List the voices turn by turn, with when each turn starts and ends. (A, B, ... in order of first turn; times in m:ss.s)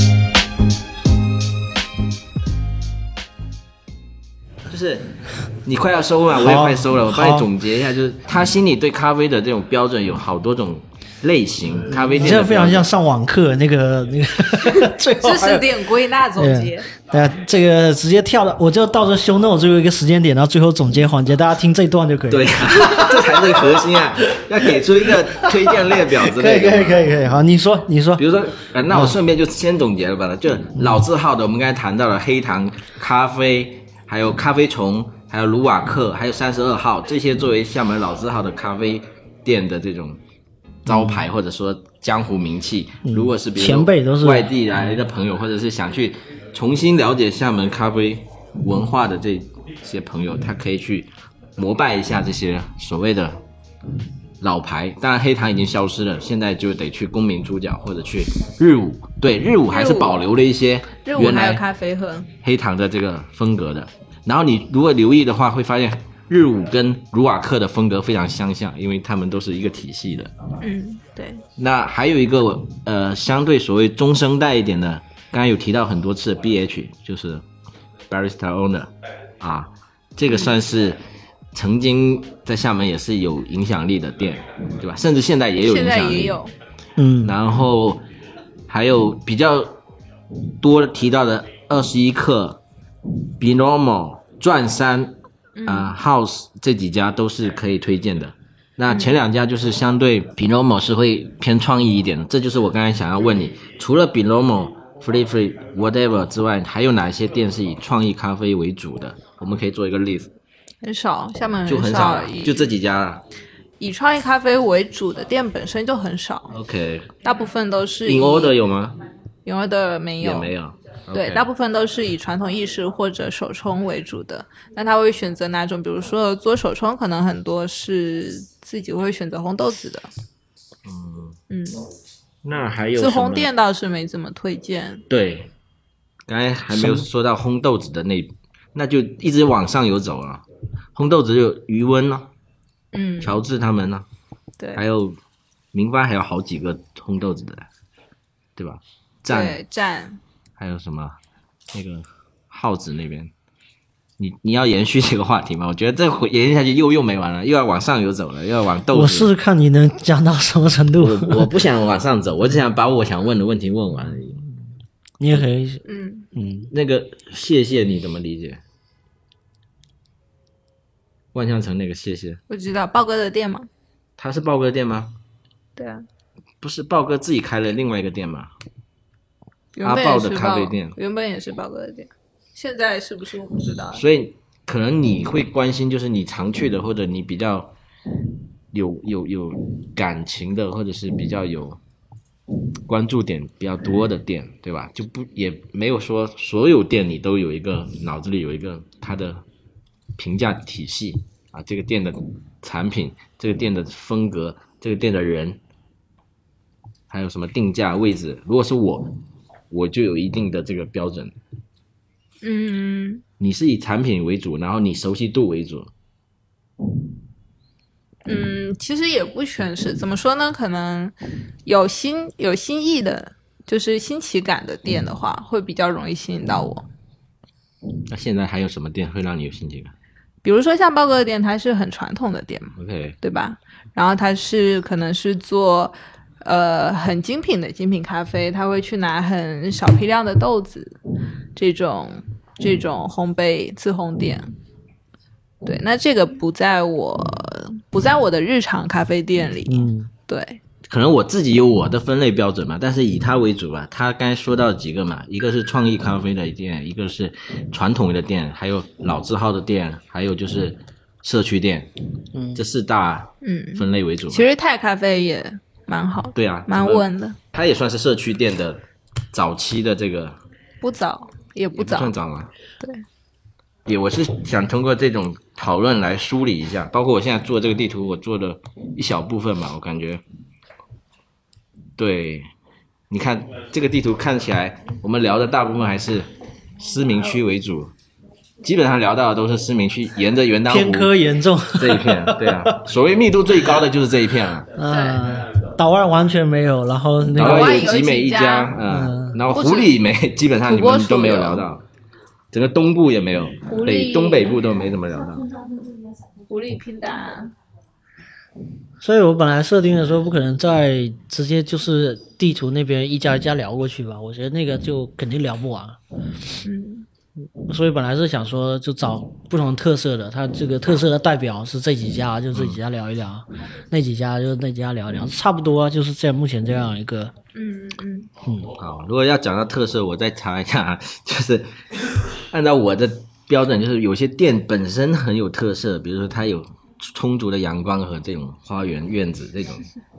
0:04.7-0:12.9 A
0:06.3-0:07.5 B
0:11.9-0:15.8 B
0:14.6-0:16.9 C
0:16.4-0:28.3 B
0:22.3-0:27.1 A
0:28.2-0:40.2 A
0:28.9-0:29.2 B
0:40.8-0:53.4 A
0:40.9-0:41.3 B
0:43.1-0:44.5 B
0:54.4-1:01.6 A
0:59.7-1:00.2 C
1:01.0-1:02.3 C
1:02.4-1:10.3 A
1:10.6-1:11.4 C
1:11.6-1:17.4 A
1:18.1-1:21.0 A
1:20.3-1:20.6 C
1:21.5-1:26.4 A
1:25.6-1:26.5 C
1:27.0-1:27.4 B
1:27.2-1:28.1 A
1:28.7-1:29.8 A
1:30.6-1:32.6 A
1:33.4-1:50.3 A
1:35.6-1:35.9 C
1:38.9-1:39.2 C
1:50.8-1:52.7 C
1:51.7-1:53.2 A
1:53.8-1:56.5 C
1:56.5-1:57.2 A
1:57.2-1:58.6 C
1:58.1-1:59.0 A
1:59.4-2:00.5 C
2:00.2-2:01.5 A
2:01.1-2:10.1 C
2:10.8-2:11.4 A
2:11.5-2:11.8 C
2:12.4-2:13.5 A
2:13.0-2:15.0 C
2:15.1-2:15.5 A
2:16.3-2:22.3 A
2:16.7-2:17.1 B
2:22.9-2:23.4 C
2:23.2-2:24.1 A
2:24.8-2:25.2 A
2:25.7-2:27.7 A
2:28.6-2:29.6 A
2:29.3-2:30.2 C
2:30.6-2:31.2 A
2:31.7-2:33.3 A
2:34.2-2:39.3 A
2:38.9-2:41.6 B
2:41.0-2:44.4 A
2:45.2-2:45.8 B
2:45.8-2:46.3 C
2:46.3-2:46.7 B
2:46.7-2:48.6 A
2:51.3-2:52.4 A
2:52.5-2:53.7 C
2:54.2-2:55.1 A
2:55.8-2:56.0 C
2:56.6-2:58.5 A
2:59.8-3:04.0 C
2:59.8-3:01.0 A
3:03.9-3:07.8 A
3:08.7-3:11.8 A
3:12.9-3:19.4 A
3:20.2-3:25.6 A
3:27.1-3:29.2 A
3:29.7-3:31.4 A
3:32.4-3:33.2 C
3:33.4-3:35.9 A
3:38.3-3:46.9 C
3:48.1-3:49.9 A
3:50.4-4:01.0 C
3:52.8-3:53.2 A
4:01.6-4:04.5 C
4:05.6-4:10.6 C
4:09.7-4:10.1 B
4:10.9-4:21.9 A
4:22.3-4:22.6 B
4:22.6-4:24.4 A
4:23.4-4:27.4 C
4:26.4-4:30.4 A
4:30.8-4:32.1 C
4:31.8-4:32.5 A
4:32.8-4:33.0 C
4:33.9-4:40.2 A
4:42.0-4:42.5 A
4:43.1-4:47.9 A
4:48.6-4:51.1 A
4:50.7-4:52.9 B
4:51.8-4:54.7 A
4:54.7-4:57.9 B
4:54.8-4:55.3 C
4:57.3-5:01.8 A
4:57.4-4:58.7 C
4:58.8-4:59.4 B
4:59.5-5:00.0 C
5:00.7-5:01.7 C
5:02.5-5:05.6 A
5:03.7-5:04.6 C
5:06.5-5:07.5 C
5:09.0-5:16.0 B
5:16.6-5:17.1 C
5:17.6-5:27.3 B
5:27.6-5:28.3 C
5:28.4-5:28.7 B
5:28.8-5:31.8 A
5:32.4-5:39.9 A